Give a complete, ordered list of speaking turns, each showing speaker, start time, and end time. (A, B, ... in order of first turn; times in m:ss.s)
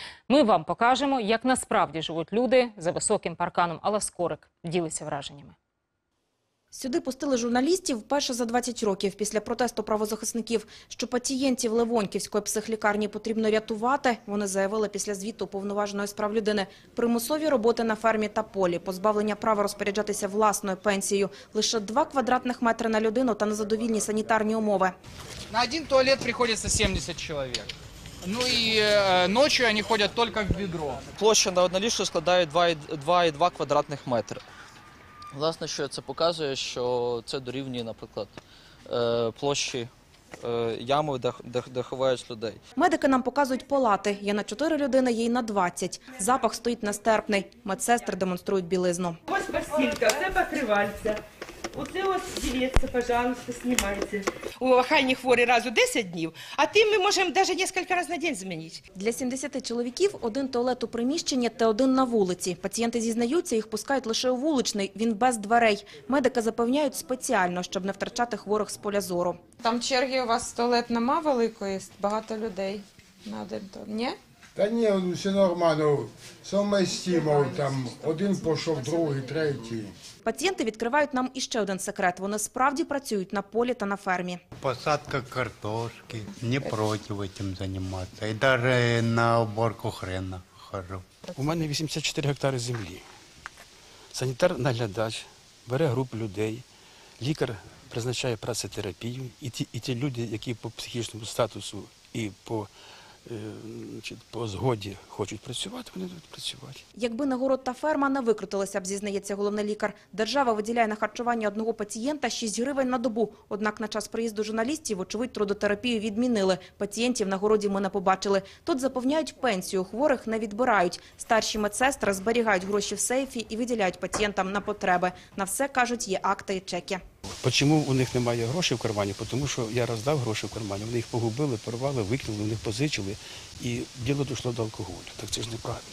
0:00.3-0:05.6 A
0:06.7-0:24.9 B
0:25.7-0:27.6 C
0:28.2-0:30.8 C
0:31.2-0:34.4 D
0:35.3-0:42.6 D
0:42.8-0:49.2 B
0:49.3-0:51.2 E
0:51.7-0:58.8 E
0:58.9-1:09.5 B
1:09.6-1:14.1 F
1:14.6-1:19.9 G
1:20.2-1:24.4 B
1:24.6-1:31.0 H
1:31.3-1:33.0 I
1:34.1-1:36.6 I
1:37.2-1:42.7 I
1:43.2-1:46.8 I
1:47.0-2:07.0 B
2:07.4-2:15.8 I